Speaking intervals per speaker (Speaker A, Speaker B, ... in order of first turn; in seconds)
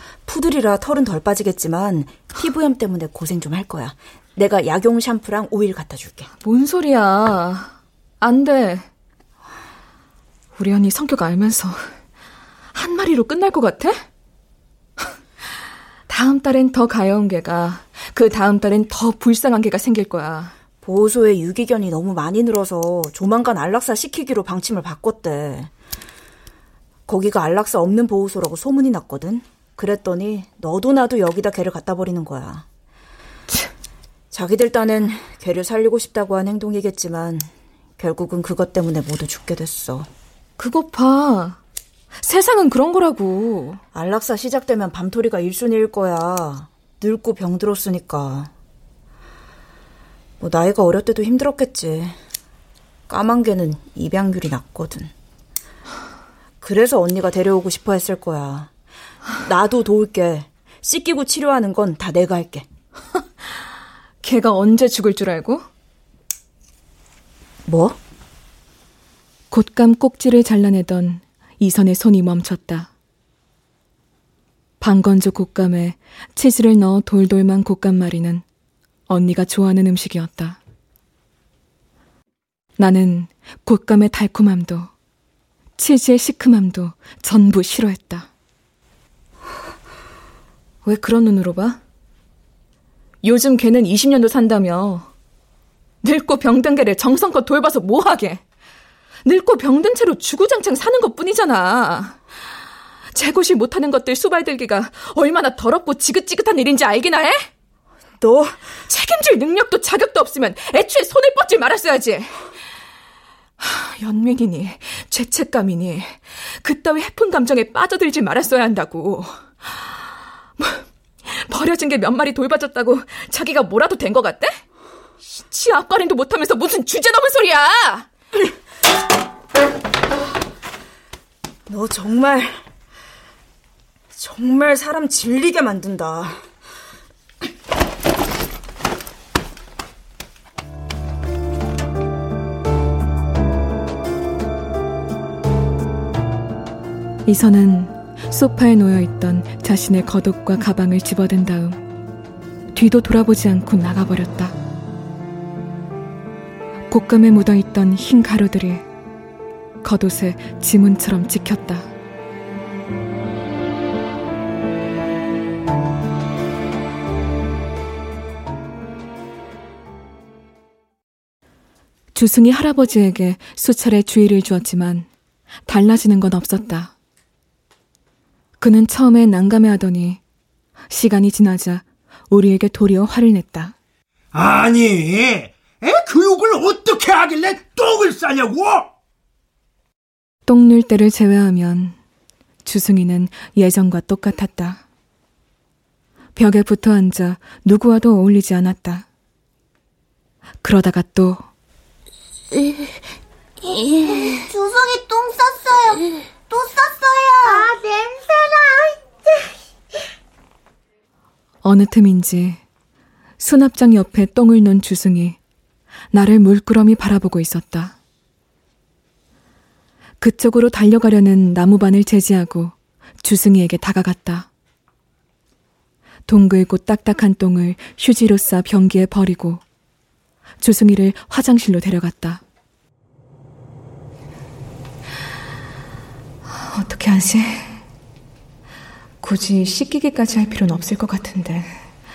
Speaker A: 0.2-6.3, 20.8-25.7, 27.1-32.6, 34.3-40.1, 43.9-48.5, 50.4-52.2, 53.1-55.1, 56.6-58.7, 59.3-62.6, 67.7-68.0, 108.2-108.7, 131.7-132.6, 134.1-136.4
Speaker B: 6.4-8.9, 10.6-11.9, 12.7-14.0, 16.1-20.5, 40.6-41.6, 42.2-43.8, 64.2-65.6, 69.5-72.9, 74.8-78.4, 79.1-80.6, 82.8-84.9, 85.8-88.3, 90.8-91.8, 93.2-95.1, 96.0-98.4, 99.2-102.2, 103.1-107.4, 108.9-112.3, 113.6-119.8, 120.6-124.6, 125.2-128.1, 147.2-151.8, 152.7-154.5, 156.9-158.8, 159.8-161.9, 172.1-175.1, 175.7-176.9, 178.6-180.2, 180.9-183.8, 190.4-192.0, 192.6-194.8, 196.3-199.1, 200.6-201.4, 211.6-212.6, 213.4-215.4, 216.1-217.9, 220.2-224.5, 226.3-229.6, 230.6-232.4, 236.5-237.8, 239.2-241.7
Speaker C: 184.3-188.9
Speaker D: 203.9-209.0